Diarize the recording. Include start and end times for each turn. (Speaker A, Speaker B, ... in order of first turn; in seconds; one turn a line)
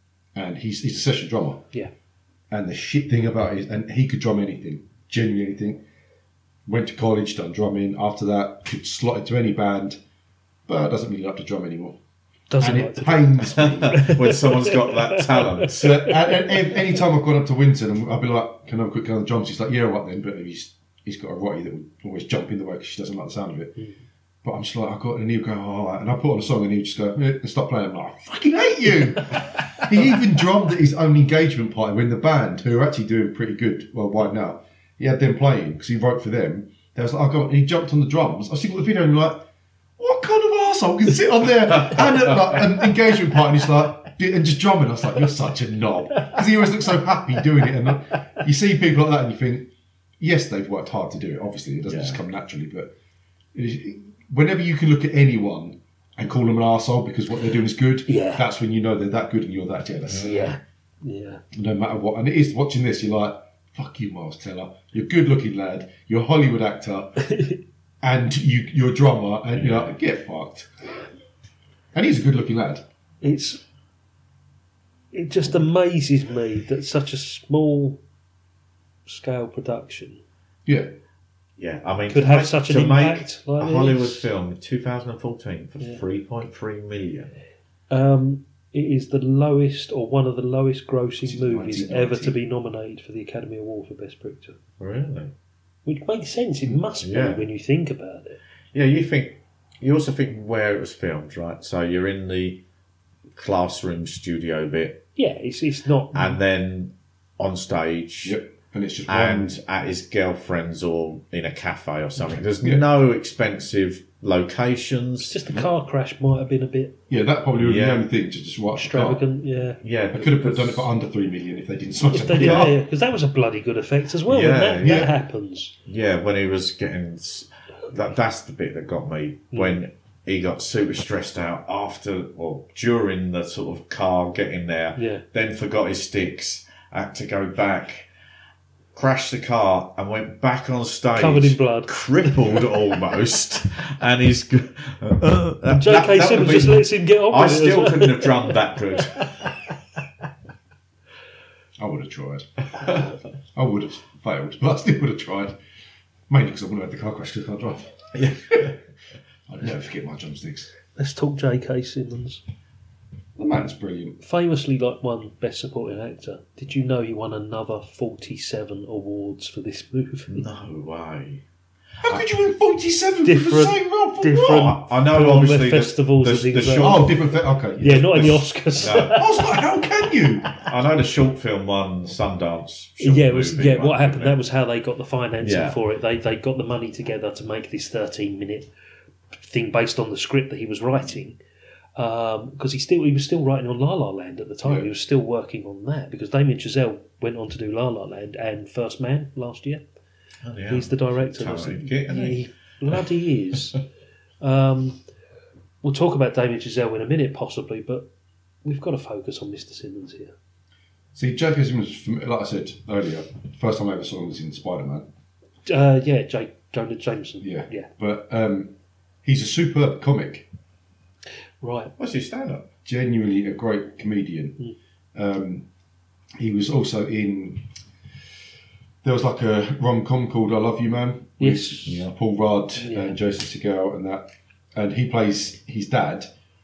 Speaker A: 0.3-1.7
Speaker A: 2.5-5.8
Speaker A: 6.7-10.0
Speaker A: 10.7-12.0
Speaker B: 12.5-15.7
Speaker A: 12.6-14.1
Speaker C: 13.6-16.1
Speaker A: 15.6-23.8
Speaker A: 24.4-39.5
Speaker A: 40.0-52.9
Speaker C: 41.9-42.6
Speaker C: 51.9-52.2
Speaker A: 53.5-60.5
Speaker B: 58.1-58.4
Speaker C: 60.1-60.4
Speaker B: 60.2-61.4
Speaker A: 61.5-67.2
Speaker B: 67.3-67.6
Speaker A: 68.0-70.7
Speaker C: 69.5-69.9
Speaker A: 71.9-72.8
Speaker B: 73.2-73.6
Speaker B: 75.1-78.0
Speaker B: 79.1-80.2
Speaker A: 80.7-80.9
Speaker C: 81.6-87.3
Speaker B: 82.1-84.3
Speaker B: 87.9-94.6
Speaker A: 91.2-92.4
Speaker C: 94.8-95.3
Speaker B: 95.8-98.4
Speaker C: 97.0-97.4
Speaker C: 98.7-102.6
Speaker C: 103.3-105.0
Speaker B: 105.2-106.4
Speaker C: 106.1-108.4
Speaker A: 108.2-109.6
Speaker C: 109.1-115.4
Speaker A: 112.2-112.9
Speaker B: 115.2-117.0
Speaker A: 117.1-119.3
Speaker C: 117.6-118.1
Speaker B: 118.8-119.8
Speaker C: 119.8-120.9
Speaker A: 120.1-122.8
Speaker B: 122.1-125.7
Speaker C: 122.3-122.7
Speaker C: 124.3-125.1
Speaker A: 124.8-125.1
Speaker C: 125.9-138.1
Speaker B: 129.5-129.8
Speaker B: 135.0-135.2
Speaker C: 138.9-149.5
Speaker B: 141.2-142.6
Speaker B: 145.7-148.5
Speaker A: 151.8-152.6
Speaker A: 153.6-155.6
Speaker A: 156.3-158.8
Speaker C: 158.2-158.7
Speaker A: 159.5-160.7
Speaker B: 161.0-162.4
Speaker A: 163.4-164.2
Speaker B: 164.2-170.4
Speaker C: 170.3-171.4
Speaker A: 172.0-174.7
Speaker B: 173.2-177.1
Speaker C: 174.4-177.1
Speaker A: 176.8-180.6
Speaker B: 177.8-179.4
Speaker C: 178.8-179.2
Speaker C: 180.5-184.4
Speaker B: 183.0-188.7
Speaker C: 185.4-185.8
Speaker B: 189.4-191.4
Speaker B: 192.0-199.8
Speaker A: 194.6-194.9
Speaker C: 200.4-202.5
Speaker B: 200.7-203.8
Speaker B: 204.4-205.0
Speaker B: 205.8-208.1
Speaker B: 208.6-210.3
Speaker A: 211.2-215.1
Speaker B: 215.7-217.9
Speaker A: 217.4-218.7
Speaker A: 219.2-220.5
Speaker B: 221.6-221.9
Speaker C: 222.0-222.7
Speaker A: 222.8-224.6
Speaker A: 225.2-225.7
Speaker A: 226.4-227.7
Speaker A: 229.0-236.3
Speaker B: 231.4-232.0
Speaker C: 231.9-232.1
Speaker B: 232.8-233.2